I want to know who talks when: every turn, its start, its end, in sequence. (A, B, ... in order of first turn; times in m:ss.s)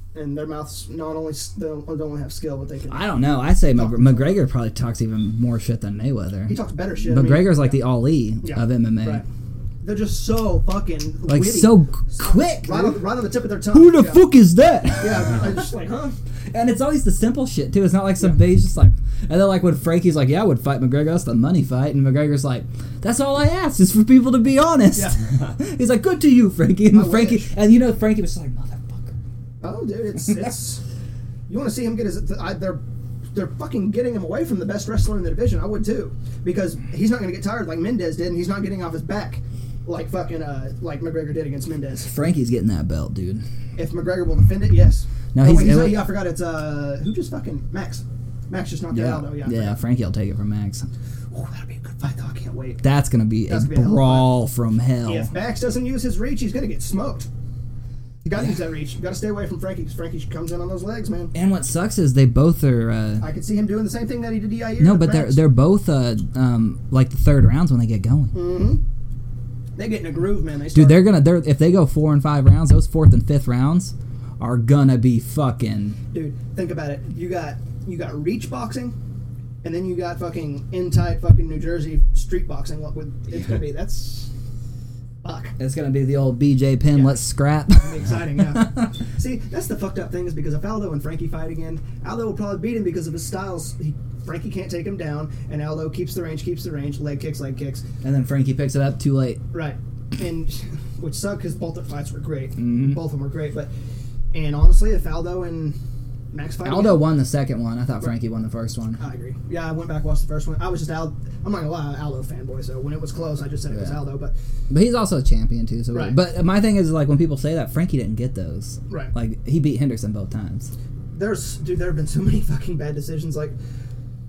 0:00.1-0:03.2 A
0:02.9-0:06.6 B
0:03.7-0:04.4 A
0:06.5-0:07.8 A
0:07.1-0:09.2 B
0:08.4-0:09.3 A
0:09.8-0:14.3 A
0:11.3-0:13.0 B
0:13.7-0:15.4 B
0:14.9-0:16.2 A
0:16.5-0:29.1 B
0:26.9-0:27.5 A
0:29.6-0:30.8 A
0:31.5-0:32.8 A
0:33.3-0:42.1 A
0:42.0-0:43.4 B
0:43.8-0:49.8 A
0:45.3-0:46.1 B
0:48.9-0:50.9 B
0:51.3-0:52.8 A
0:52.8-0:55.3 B
0:53.5-0:54.3 A
0:55.0-0:57.3 A
0:58.2-1:01.3 A
1:01.3-1:03.3 B
1:03.2-1:05.4 A
1:04.8-1:08.4 B
1:08.3-1:08.8 A
1:09.8-1:11.1 A
1:10.7-1:16.0 B
1:16.1-1:19.0 A
1:19.6-1:24.3 A
1:25.2-1:25.6 A
1:25.6-1:28.9 B
1:26.9-1:27.2 A
1:27.8-1:37.8 A
1:38.0-1:39.4 B
1:39.5-1:43.7 A
1:42.6-1:43.0 B
1:44.3-1:45.8 A
1:46.3-1:47.1 A
1:46.6-1:49.0 B
1:49.0-1:54.3 A
1:54.7-2:00.7 B
2:01.1-2:03.6 A